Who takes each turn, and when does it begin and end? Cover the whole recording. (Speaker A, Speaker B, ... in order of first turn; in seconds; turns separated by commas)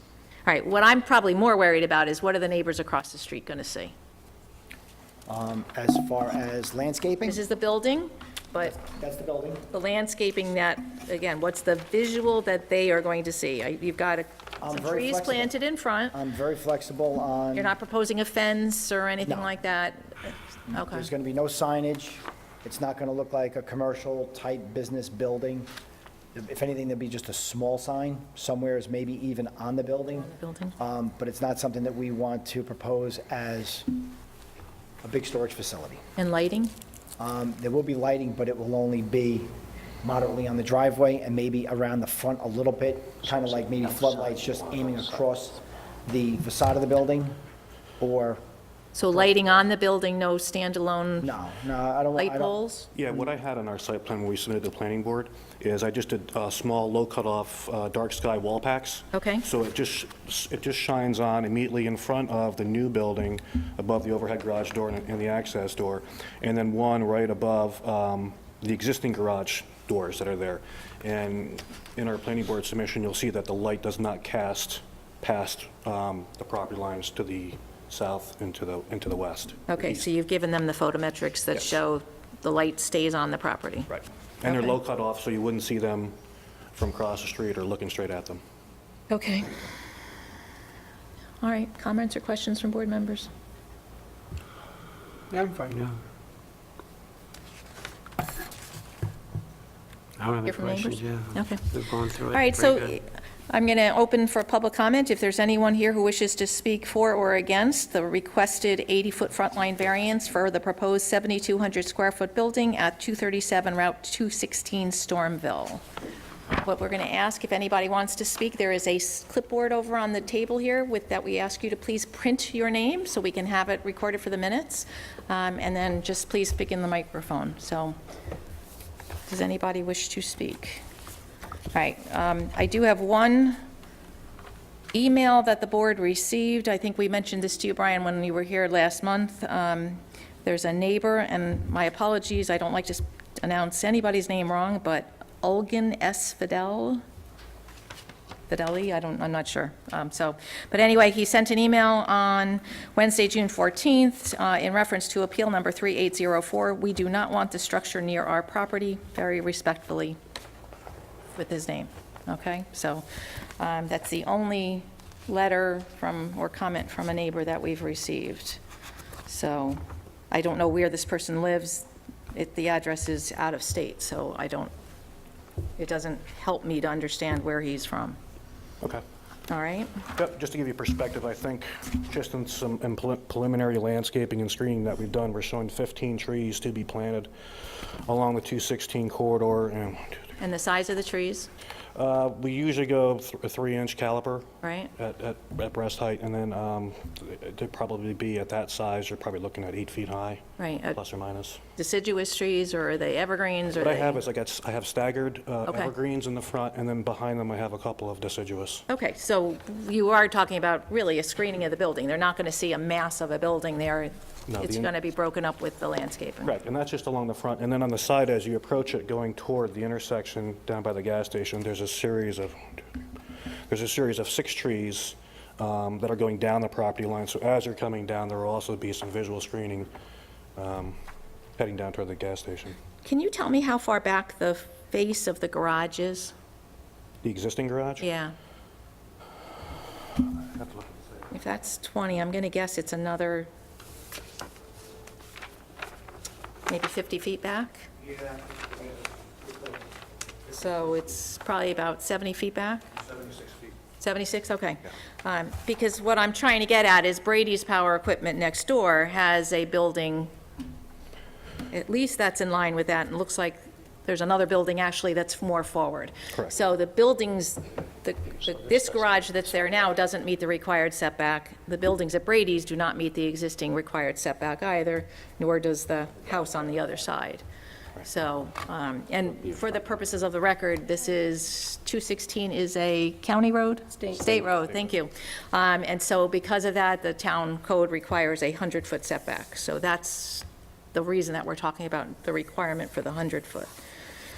Speaker A: 0.5-3.9, Speaker B: 5.3-7.4, Speaker A: 7.2-8.8, Speaker B: 8.6-9.7, Speaker A: 9.7-16.1, Speaker B: 14.6-15.5, Speaker B: 16.1-17.7, Speaker A: 17.5-21.1, Speaker B: 20.7-25.7, Speaker B: 26.3-33.9, Speaker A: 30.2-30.8, Speaker B: 35.0-36.0, Speaker A: 36.2-36.7, Speaker B: 37.2-39.5, Speaker B: 40.0-47.3, Speaker B: 48.0-48.4, Speaker A: 48.9-51.3, Speaker B: 51.2-52.5, Speaker A: 52.1-52.9, Speaker C: 52.9-80.0, Speaker A: 59.1-59.4, Speaker A: 79.7-83.9, Speaker C: 84.4-86.1, Speaker A: 84.4-84.8, Speaker C: 86.8-88.4, Speaker A: 89.1-89.5, Speaker A: 91.4-93.3, Speaker D: 95.3-96.0, Speaker D: 100.2-102.8, Speaker A: 100.5-101.7, Speaker A: 102.3-115.8, Speaker A: 116.6-128.0, Speaker A: 129.3-130.8, Speaker A: 131.7-133.6, Speaker A: 134.9-147.0, Speaker A: 148.5-160.2, Speaker A: 161.3-163.0, Speaker A: 163.6-168.6, Speaker A: 169.2-169.8, Speaker A: 170.3-174.7, Speaker A: 175.8-178.2, Speaker A: 179.5-180.0, Speaker C: 180.1-190.3, Speaker A: 190.4-191.5, Speaker C: 191.9-201.6, Speaker A: 194.6-194.9, Speaker A: 200.6-201.0, Speaker A: 201.8-204.2, Speaker C: 203.7-208.8, Speaker A: 205.7-205.9, Speaker A: 208.9-216.5, Speaker C: 214.5-214.9, Speaker C: 216.4-223.0, Speaker C: 223.7-229.9, Speaker C: 230.6-231.0, Speaker C: 231.6-232.8, Speaker A: 233.0-236.3, Speaker C: 237.2-238.1, Speaker A: 238.0-238.3, Speaker C: 240.6-240.9, Speaker A: 241.3-243.5, Speaker A: 246.7-247.9, Speaker A: 250.5-252.8, Speaker A: 254.0-260.3, Speaker A: 261.7-277.4, Speaker A: 278.0-293.7